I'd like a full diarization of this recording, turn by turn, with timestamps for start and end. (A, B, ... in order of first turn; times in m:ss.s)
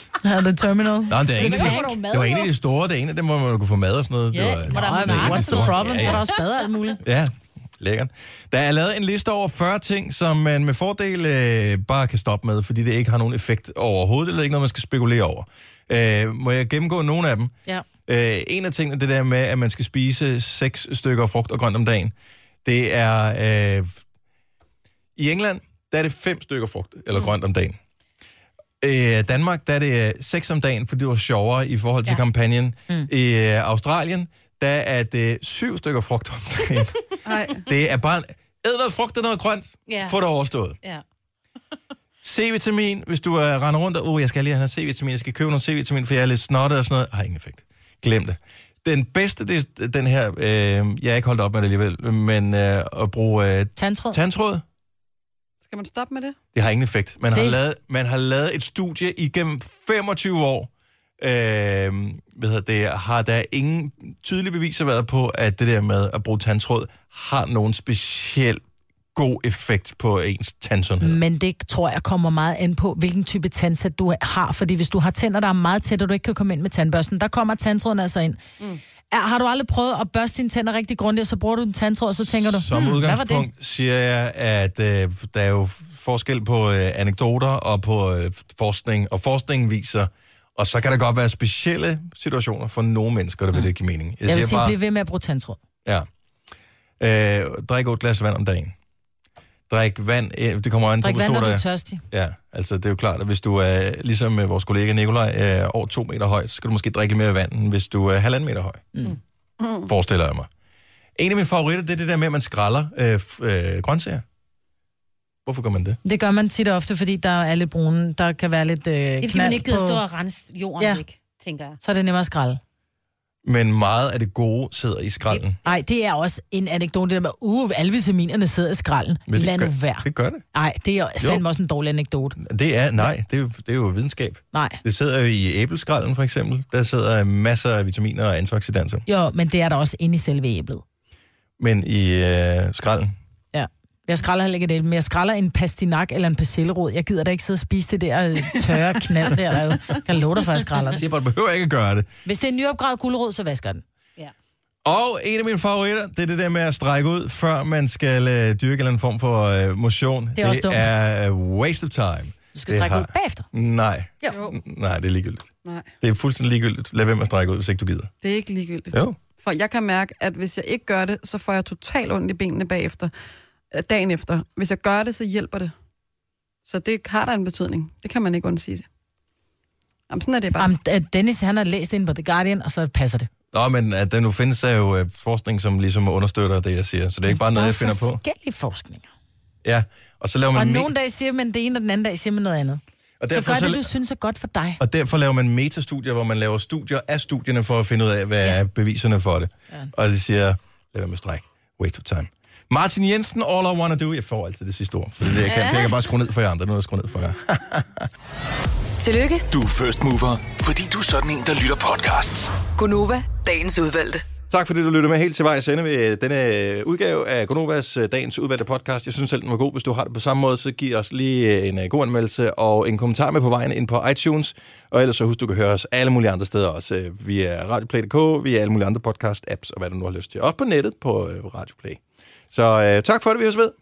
0:00.2-0:02.0 A
0:01.1-0:06.3 B
0:01.4-0:02.5 C
0:04.3-0:06.4 C
0:04.7-0:07.0 A
0:07.0-0:17.5 B
0:18.1-0:24.0 B
0:25.2-0:27.8 B
0:28.8-0:37.0 B
0:37.2-0:37.6 D
0:37.6-0:40.8 B
0:39.9-0:40.2 C
0:42.2-0:54.6 B
0:53.8-0:54.2 A
0:55.7-0:56.4 D
0:56.5-1:08.6 B
0:57.3-0:57.6 A
1:09.2-1:11.2 B
1:11.0-1:18.4 A
1:19.1-1:23.5 A
1:22.2-1:34.8 B
1:34.3-1:35.6 A
1:37.0-1:38.7 B
1:39.7-1:48.8 B
1:41.0-1:42.0 A
1:49.6-1:49.9 D
1:49.9-1:50.5 B
1:51.2-1:54.2 B
1:55.5-1:56.0 B
1:56.0-2:00.0 A
1:59.2-2:01.8 C
2:01.8-2:02.6 A
2:03.4-2:05.6 B
2:05.3-2:05.8 C
2:05.6-2:12.4 A
2:09.3-2:10.4 B
2:12.4-2:19.0 B
2:14.5-2:14.8 A
2:19.1-2:20.8 A
2:21.6-2:23.1 B
2:23.5-2:31.0 A
2:30.9-2:32.1 B
2:32.2-2:33.8 A
2:34.8-2:45.5 B
2:40.4-2:40.9 A
2:42.6-2:43.5 A
2:44.3-2:44.6 D
2:46.0-2:48.1 B
2:48.2-2:53.1 D
2:48.9-2:49.2 B
2:53.7-2:55.7 D
2:56.6-2:58.9 D
3:00.1-3:00.7 D
3:00.6-3:03.3 A
3:03.5-3:08.2 B
3:07.3-3:09.1 A
3:09.6-3:10.9 B
3:10.5-3:14.8 A
3:13.2-3:13.9 B
3:14.8-3:28.1 B
3:25.4-3:25.9 C
3:29.0-3:29.5 E
3:29.5-3:32.6 F
3:32.7-3:34.2 E
3:34.5-3:53.8 B